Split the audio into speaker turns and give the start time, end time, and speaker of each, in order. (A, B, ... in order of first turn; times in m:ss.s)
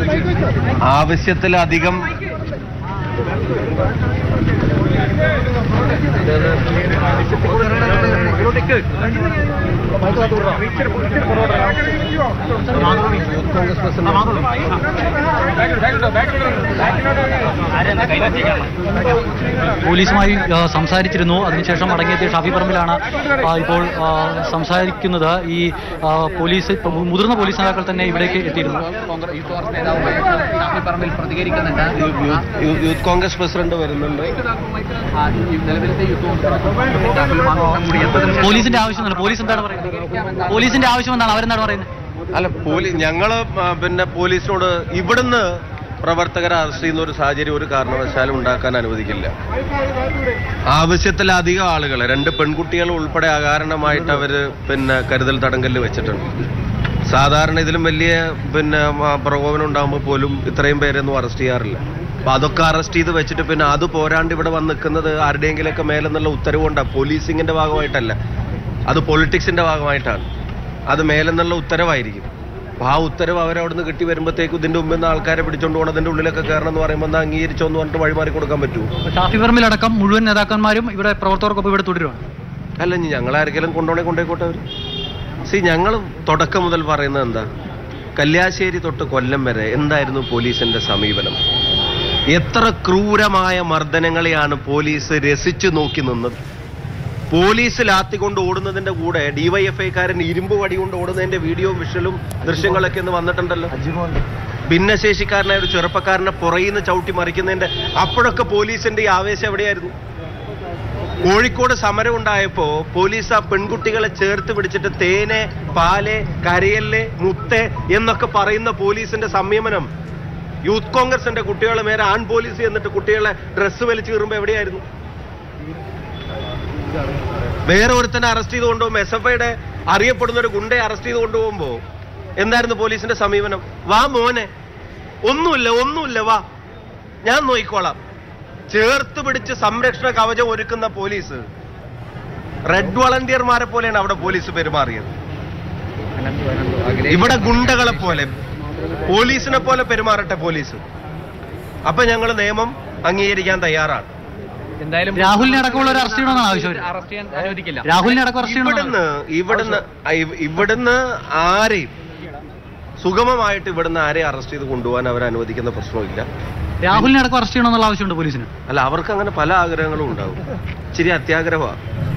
0:00.9-0:02.1 A
0:08.1-0:08.8 B
0:13.6-0:14.2 A
0:19.8-0:28.8 C
0:28.9-0:32.0 B
0:32.0-0:34.4 A
0:35.2-0:38.7 B
0:38.4-0:41.9 C
0:42.3-0:45.4 A
0:46.0-0:49.3 A
0:50.7-0:56.3 A
0:57.1-1:08.2 A
1:08.9-1:10.2 A
1:10.9-1:12.3 A
1:12.8-1:18.9 A
1:19.1-1:22.2 C
1:22.8-1:24.6 A
1:25.5-1:27.5 A
1:28.2-1:31.4 A
1:32.3-1:36.4 A
1:37.3-1:43.7 A
1:44.7-1:49.9 A
1:51.2-1:59.9 A
2:00.7-2:04.8 A
2:07.7-2:11.8 A
2:12.4-2:14.5 A
2:15.3-2:16.4 A
2:17.3-2:18.0 A
2:18.7-2:21.4 A
2:22.7-2:25.1 A
2:26.2-2:28.0 B
2:27.1-2:28.3 A
2:29.1-2:30.8 A
2:31.9-2:34.1 A
2:34.8-2:37.9 B
2:35.2-2:36.9 C
2:37.8-2:39.0 C
2:38.3-2:41.9 A
2:43.0-2:46.3 A
2:46.8-2:48.5 C
2:48.7-2:50.4 A
2:51.0-2:51.8 A